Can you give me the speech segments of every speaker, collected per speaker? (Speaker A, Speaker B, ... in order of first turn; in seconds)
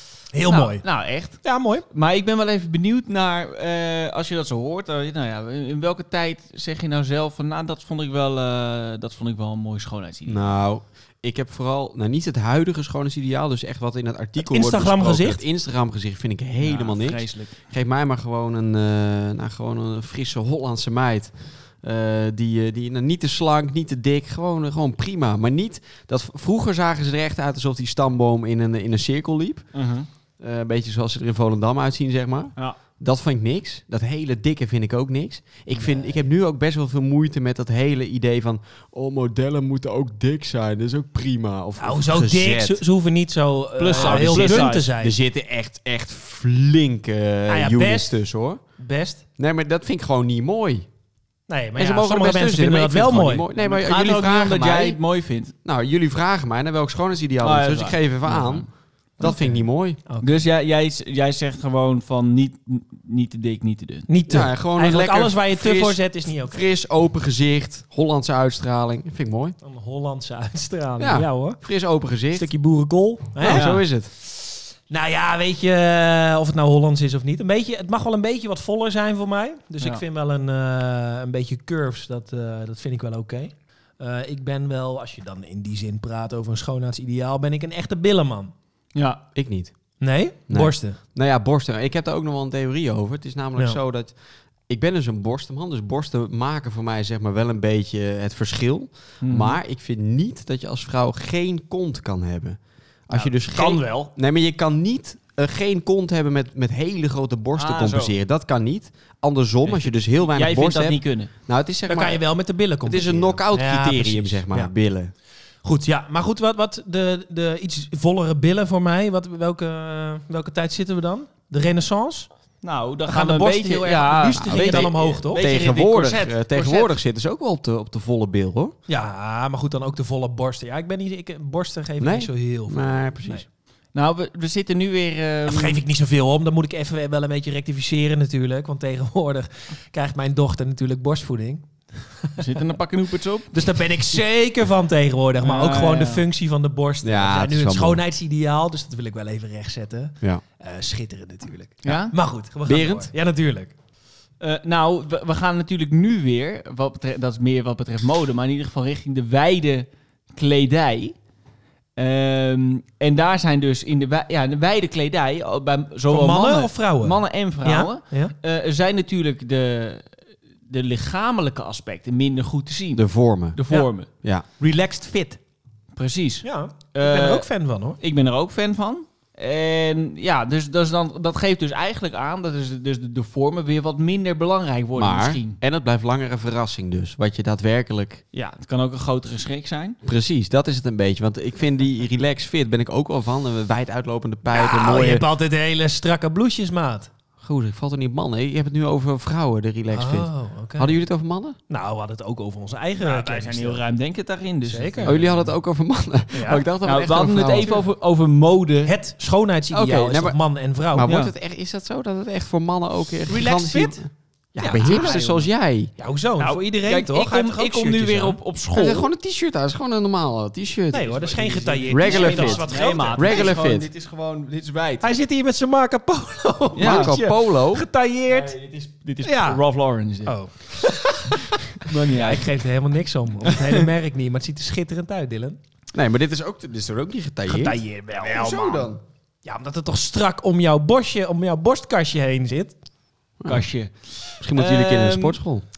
Speaker A: 0.3-0.8, 1.4-1.8, 14.4-15.4, 41.8-45.1, 47.5-48.1, 48.8-49.2, 51.5-53.4, 59.2-60.4, 64.1-66.7, 69.6-71.6, 72.3-73.7, 74.9-88.5, 90.0-91.0, 111.9-114.7, 115.6-122.3, 123.1-125.4, 128.9-133.4, 135.4-142.4, 143.5-153.7, 166.1-168.3, 174.6-175.4, 176.4-178.0, 194.5-197.1, 199.9-200.9, 201.7-203.8, 204.7-205.5, 206.3-206.7, 208.8-211.1, 213.3-214.0, 214.6-215.2, 216.0-218.4, 220.9-223.5, 225.0-228.5, 229.2-229.6, 230.2-235.6, 237.5-238.9, 239.4-242.8
Speaker B: 0.5-10.4, 16.6-17.6, 29.7-30.1, 43.8-44.9, 53.5-55.5, 57.4-58.6, 60.2-64.1, 73.4-73.8, 88.9-89.2, 99.2-99.6, 103.1-104.1, 107.5-108.2, 109.6-111.3, 122.6-126.9, 133.9-135.8, 142.4-143.5, 145.4-146.2, 151.8-152.1, 154.4-161.1, 162.0-170.1, 170.7-174.1, 175.9-177.5, 178.0-185.6, 188.3-190.0, 203.0-205.3, 206.8-208.9, 211.0-211.3, 214.7-215.5, 216.4-219.1, 221.2-225.1, 226.8-227.2, 228.3-230.4, 231.8-232.5, 233.4-233.9, 243.4-245.4
Speaker C: 10.2-29.7, 30.4-42.8, 43.9-48.6, 49.4-50.9, 51.8-55.0, 55.6-58.7, 59.2-60.0, 64.3-69.5, 71.0-72.5, 73.4-74.1, 89.3-89.7, 90.5-94.1, 94.7-112.2, 112.8-115.1, 124.5-128.7, 132.0-133.4, 147.0-148.0, 152.7-153.1, 172.9-173.6, 184.9-188.2, 190.0-195.2, 197.4-201.6, 205.0-207.8, 209.7-210.4, 210.9-215.9, 218.7-221.2, 221.9-223.9, 226.8-227.8, 235.9-239.0, 243.4-243.7, 244.4-245.6